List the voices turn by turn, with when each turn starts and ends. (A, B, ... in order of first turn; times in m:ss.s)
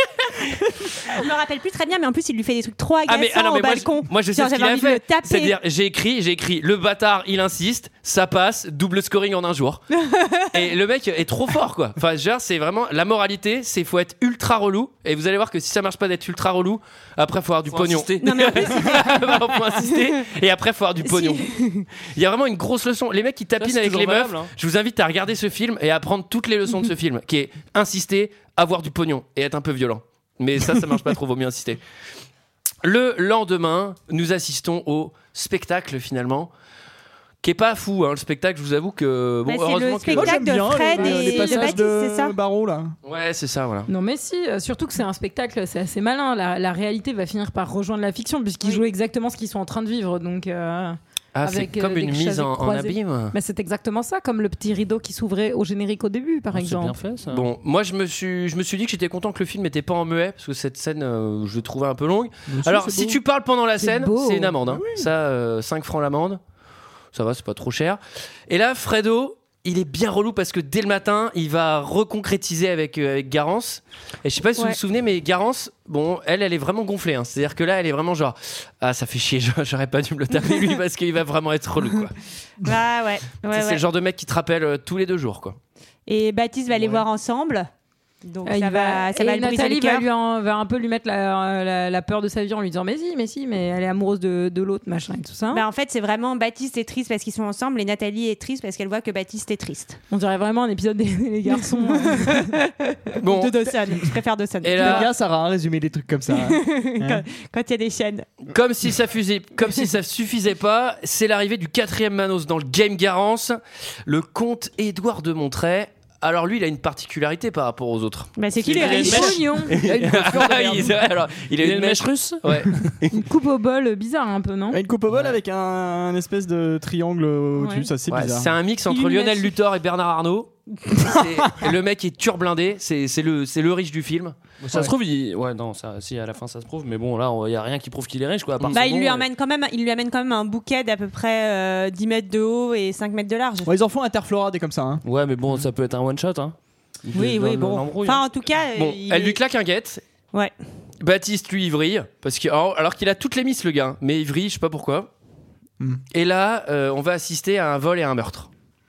0:01.1-0:05.6 A
0:03.1-0:09.9 B
0:10.0-0:10.5 A
0:10.5-0:21.5 B
0:17.7-0:18.7 C
0:18.2-0:20.1 A
0:21.0-0:21.9 A
0:22.1-0:31.8 B
0:23.6-0:24.5 C
0:32.8-0:36.5 B
0:37.4-0:40.5 B
0:39.5-0:42.3 A
0:40.1-0:43.0 D
0:40.9-0:41.7 E
0:43.0-0:43.9 B
0:43.9-0:57.0 E
0:51.4-0:53.4 B
0:56.5-0:57.5 C
0:57.3-1:06.4 B
1:02.5-1:03.2 D
1:03.8-1:04.6 E
1:04.7-1:05.1 D
1:07.1-1:22.1 B
1:22.6-1:23.8 A
1:23.5-1:25.6 B
1:26.1-1:27.7 A
1:26.8-1:27.0 D
1:28.2-1:30.1 A
1:28.5-1:35.6 E
1:35.5-1:40.0 A
1:40.1-1:42.5 E
1:41.6-1:42.6 A
1:43.2-1:43.6 B
1:43.2-1:45.1 A
1:44.6-1:45.1 B
1:44.8-1:47.2 D
1:46.3-1:48.3 A
1:48.5-2:03.0 B
1:58.4-1:59.4 A
1:58.7-1:59.3 C
1:58.9-2:01.0 D
1:59.0-1:59.7 E
2:01.6-2:02.9 C
2:03.1-2:04.8 E
2:04.7-2:08.6 D
2:07.6-2:07.9 E
2:08.1-2:14.4 B
2:08.9-2:09.5 E
2:14.6-2:19.3 C
2:18.7-2:23.7 A
2:23.6-2:25.0 D
2:25.0-2:28.2 C
2:27.2-2:29.4 A
2:28.8-2:30.0 B
2:31.0-2:35.1 B
2:36.1-2:38.5 B